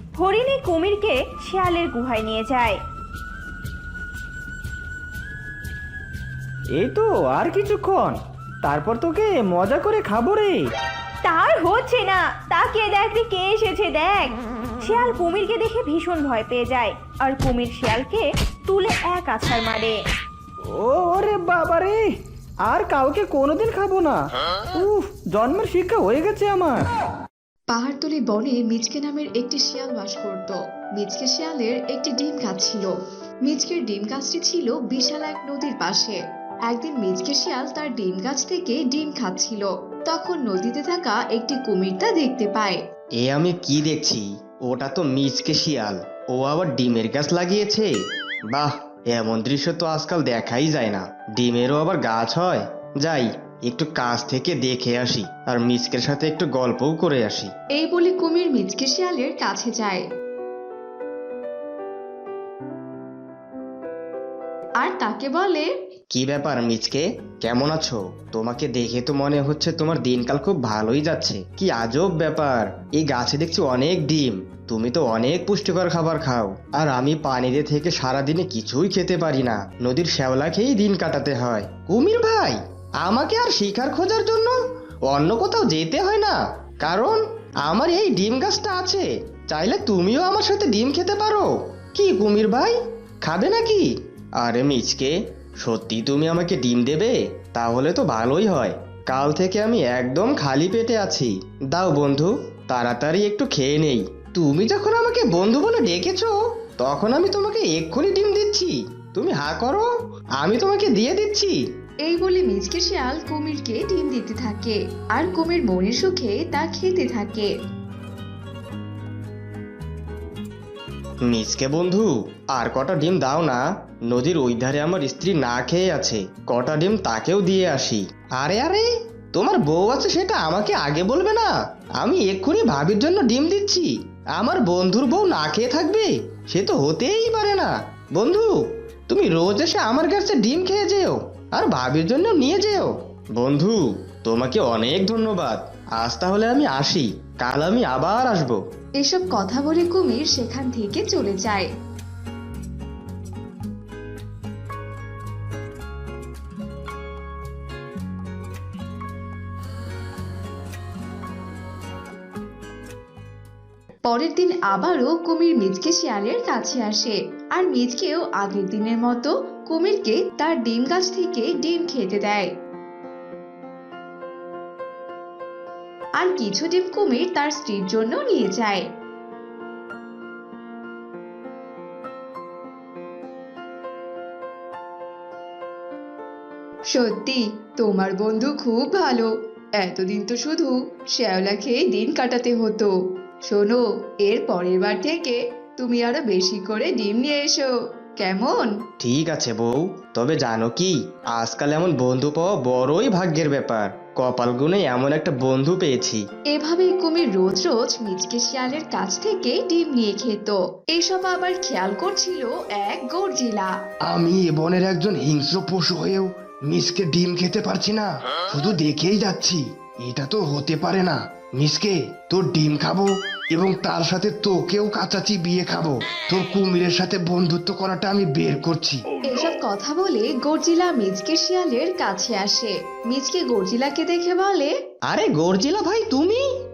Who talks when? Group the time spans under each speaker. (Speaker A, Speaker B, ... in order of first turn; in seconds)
Speaker A: 0.2-2.8, 11.2-20.0
Speaker B: 6.7-10.7, 20.7-26.9
Speaker C: 27.7-32.9, 33.5-42.8, 57.8-60.0, 64.8-65.7, 112.0-117.5, 149.0-151.7, 164.1-172.5, 176.2-178.8, 186.9-192.9, 193.5-198.7, 206.5-213.7, 229.3-234.7
Speaker D: 43.2-47.9, 48.5-57.5, 66.1-84.5, 85.1-111.6, 121.2-138.6, 139.1-148.6, 199.0-206.2, 235.1-236.4
Speaker E: 214.1-229.1